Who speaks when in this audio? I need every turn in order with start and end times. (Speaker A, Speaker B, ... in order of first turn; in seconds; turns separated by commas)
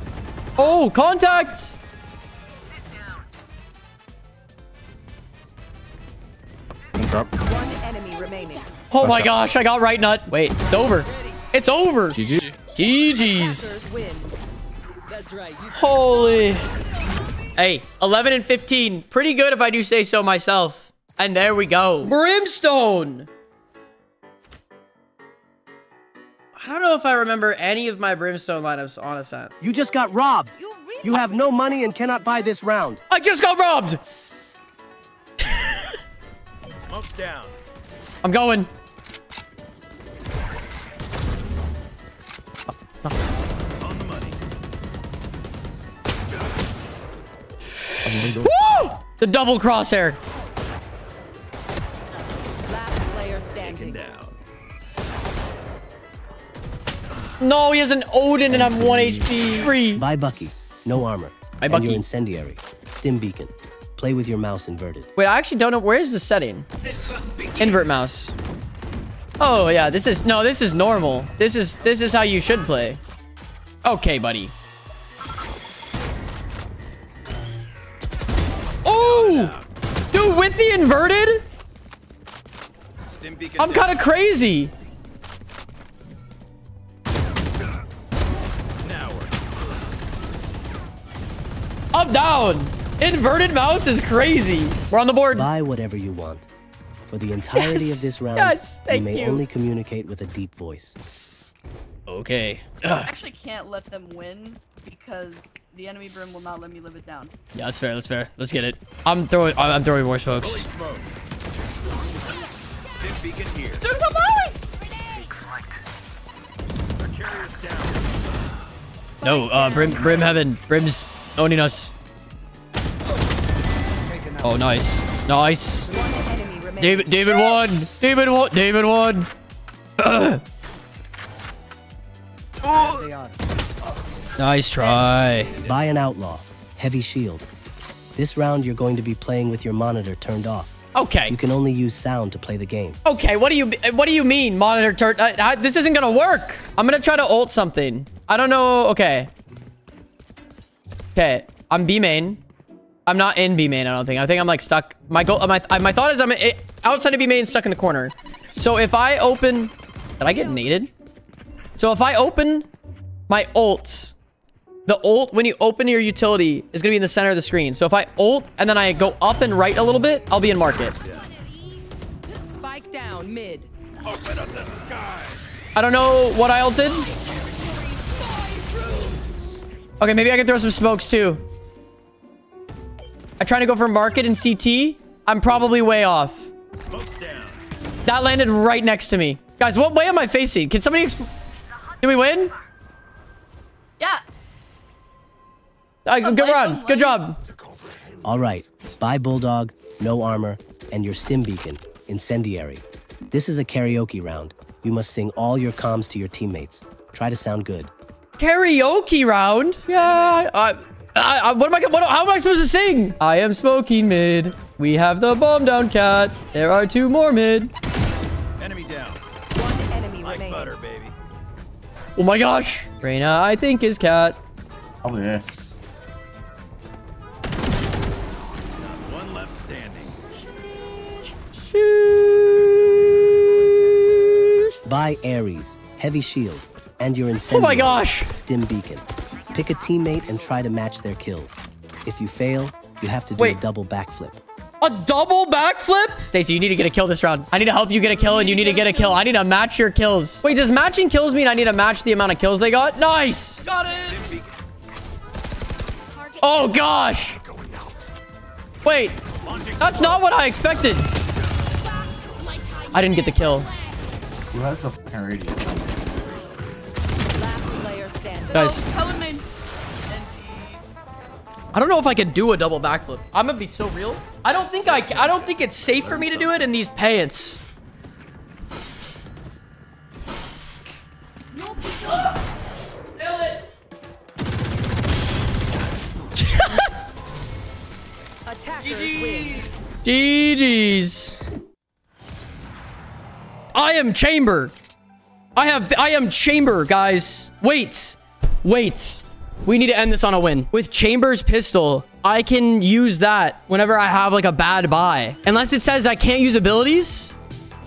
Speaker A: 0.6-1.8, Speaker B: 7.0-7.3, Speaker C: 7.4-8.7, Speaker A: 8.9-12.2, Speaker B: 9.0-9.4, Speaker B: 12.1-12.4, Speaker A: 12.8-13.8, Speaker C: 13.1-14.3, Speaker C: 15.1-16.1, Speaker A: 15.7-16.7, Speaker A: 17.6-23.3, Speaker A: 26.6-29.5, Speaker D: 29.6-33.0, Speaker E: 30.6-31.7, Speaker A: 33.1-34.0, Speaker F: 36.8-37.6, Speaker A: 38.2-38.7, Speaker F: 43.8-44.4, Speaker B: 48.0-48.5, Speaker A: 48.2-50.2, Speaker C: 52.6-54.1, Speaker F: 53.6-54.4, Speaker A: 57.4-60.0, Speaker B: 58.5-59.5, Speaker D: 59.8-65.1, Speaker A: 61.6-62.1, Speaker A: 65.2-66.7, Speaker A: 67.6-68.3, Speaker A: 69.4-73.0, Speaker A: 73.8-74.5, Speaker A: 78.8-79.6, Speaker F: 78.9-79.7, Speaker A: 80.1-81.5, Speaker F: 83.1-84.0, Speaker A: 83.6-84.7, Speaker F: 88.8-89.5, Speaker A: 91.9-95.5, Speaker D: 95.3-96.5, Speaker D: 97.1-101.0, Speaker A: 97.5-99.4, Speaker A: 102.1-103.1, Speaker E: 103.0-107.3, Speaker A: 107.5-110.7, Speaker F: 110.4-111.1, Speaker F: 113.0-113.8, Speaker E: 113.8-115.2, Speaker F: 117.0-118.2, Speaker C: 119.2-120.4, Speaker A: 119.2-121.9, Speaker F: 124.0-124.9, Speaker A: 124.4-125.9, Speaker C: 125.9-127.6, Speaker A: 126.8-129.3, Speaker A: 130.0-130.4, Speaker A: 132.7-133.0, Speaker F: 132.8-133.3, Speaker A: 134.4-135.5, Speaker D: 135.6-137.5, Speaker D: 138.2-143.0, Speaker A: 140.9-141.4, Speaker A: 143.1-149.3, Speaker A: 151.2-152.4, Speaker A: 153.1-160.9, Speaker E: 160.2-160.8, Speaker A: 161.8-162.7, Speaker A: 163.3-164.2, Speaker A: 164.9-171.0, Speaker F: 171.0-171.3, Speaker E: 171.1-171.6, Speaker C: 172.4-173.7, Speaker F: 174.0-175.4, Speaker A: 175.8-177.1, Speaker E: 177.1-179.0, Speaker A: 180.0-181.4, Speaker A: 183.4-186.5, Speaker F: 186.8-187.6, Speaker A: 188.1-191.3, Speaker A: 192.0-192.5, Speaker A: 196.1-197.4, Speaker E: 196.2-197.2, Speaker D: 198.2-207.9, Speaker A: 208.4-217.7, Speaker F: 218.6-219.2, Speaker C: 219.5-220.8, Speaker F: 220.2-221.1, Speaker A: 222.2-224.4, Speaker F: 228.8-230.2, Speaker A: 231.5-234.7, Speaker D: 234.8-244.4, Speaker A: 237.5-238.3, Speaker A: 244.8-253.6, Speaker E: 248.0-249.2, Speaker E: 253.6-254.3, Speaker F: 254.1-254.5, Speaker E: 256.0-257.0, Speaker A: 256.4-257.4, Speaker A: 258.8-259.2, Speaker F: 259.4-260.3, Speaker A: 259.8-261.1, Speaker E: 261.9-264.2, Speaker A: 262.9-263.7, Speaker F: 264.6-265.8, Speaker C: 267.3-268.8, Speaker E: 268.5-269.5, Speaker A: 268.5-268.9, Speaker E: 270.1-270.8, Speaker A: 271.7-277.6, Speaker F: 274.9-276.7, Speaker E: 281.5-282.3, Speaker A: 283.2-283.5, Speaker A: 286.4-286.9, Speaker C: 288.5-289.6, Speaker A: 288.9-289.5, Speaker A: 290.0-291.4, Speaker A: 293.7-294.8, Speaker A: 295.6-307.4